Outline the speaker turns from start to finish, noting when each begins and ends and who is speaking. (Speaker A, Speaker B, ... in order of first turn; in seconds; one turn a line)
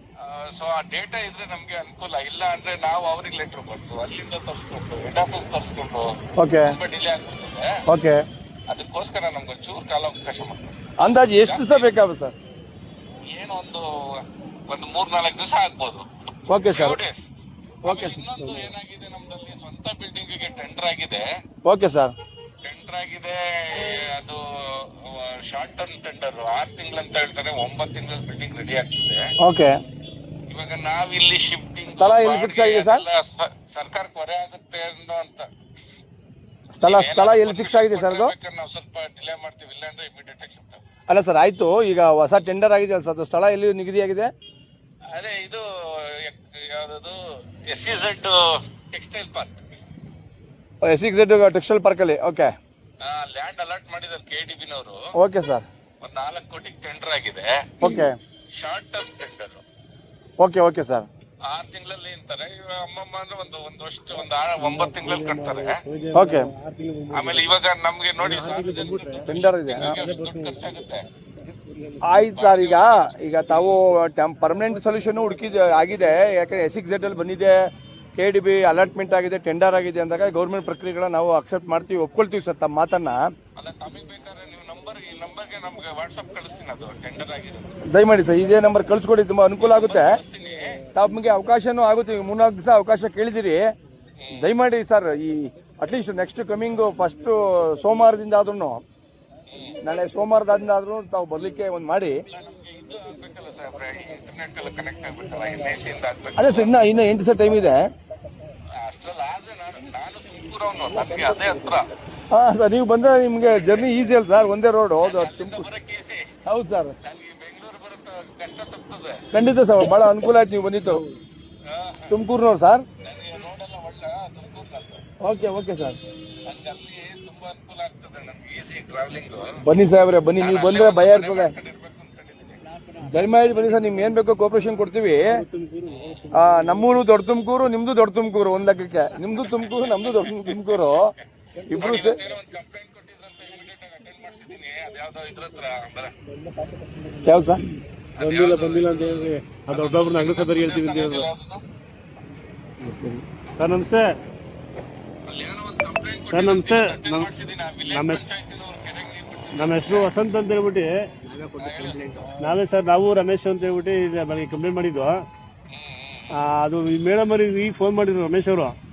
Speaker A: 0.2-6.0
Speaker B: 6.4-6.8
Speaker A: 6.6-7.7
Speaker B: 7.9-8.2
Speaker A: 8.7-10.8
Speaker B: 11.0-12.3
Speaker A: 11.4-11.9
Speaker A: 13.3-13.8
Speaker A: 14.7-17.2
Speaker B: 16.5-17.0
Speaker A: 17.8-21.2
Speaker B: 17.8-18.2
Speaker B: 21.6-22.1
Speaker A: 22.6-29.2
Speaker B: 29.4-29.7
Speaker A: 30.5-35.5
Speaker B: 31.9-33.0
Speaker B: 36.7-38.3
Speaker A: 36.8-40.9
Speaker B: 41.1-44.3
Speaker A: 45.1-47.1
Speaker A: 47.7-48.3
Speaker A: 48.9-49.6
Speaker B: 50.8-52.5
Speaker A: 53.0-55.0
Speaker B: 55.1-55.6
Speaker A: 56.0-57.5
Speaker B: 57.8-58.1
Speaker A: 58.5-59.6
Speaker B: 60.4-61.1
Speaker A: 61.5-65.8
Speaker C: 64.6-67.5
Speaker B: 66.1-66.5
Speaker A: 67.1-71.1
Speaker C: 68.2-70.7
Speaker B: 69.2-70.0
Speaker C: 71.6-72.1
Speaker B: 72.0-83.2
Speaker A: 72.3-73.8
Speaker A: 83.6-87.8
Speaker B: 87.9-90.2
Speaker A: 89.6-90.6
Speaker B: 90.9-93.6
Speaker A: 94.2-94.5
Speaker B: 94.3-98.8
Speaker A: 99.5-99.8
Speaker B: 99.8-102.2
Speaker A: 102.3-106.8
Speaker B: 106.4-107.8
Speaker A: 108.8-111.9
Speaker B: 112.3-115.7
Speaker A: 113.5-113.9
Speaker A: 115.0-116.2
Speaker B: 116.5-116.9
Speaker A: 117.0-119.1
Speaker B: 119.3-121.0
Speaker A: 121.7-122.2
Speaker B: 122.1-122.8
Speaker A: 123.0-125.0
Speaker B: 125.2-126.0
Speaker A: 126.5-129.4
Speaker B: 129.6-131.5
Speaker A: 130.4-132.6
Speaker B: 133.0-135.4
Speaker C: 135.3-136.9
Speaker A: 135.8-136.3
Speaker B: 136.3-141.0
Speaker A: 139.2-141.0
Speaker B: 141.7-142.2
Speaker A: 141.7-146.1
Speaker B: 147.2-147.6
Speaker A: 148.2-151.6
Speaker C: 148.2-151.3
Speaker C: 152.8-154.1
Speaker A: 155.3-160.1
Speaker C: 156.3-157.3
Speaker C: 157.9-158.4
Speaker C: 159.5-160.9
Speaker A: 161.6-162.3
Speaker C: 162.4-165.1
Speaker A: 165.7-166.3
Speaker C: 166.3-168.7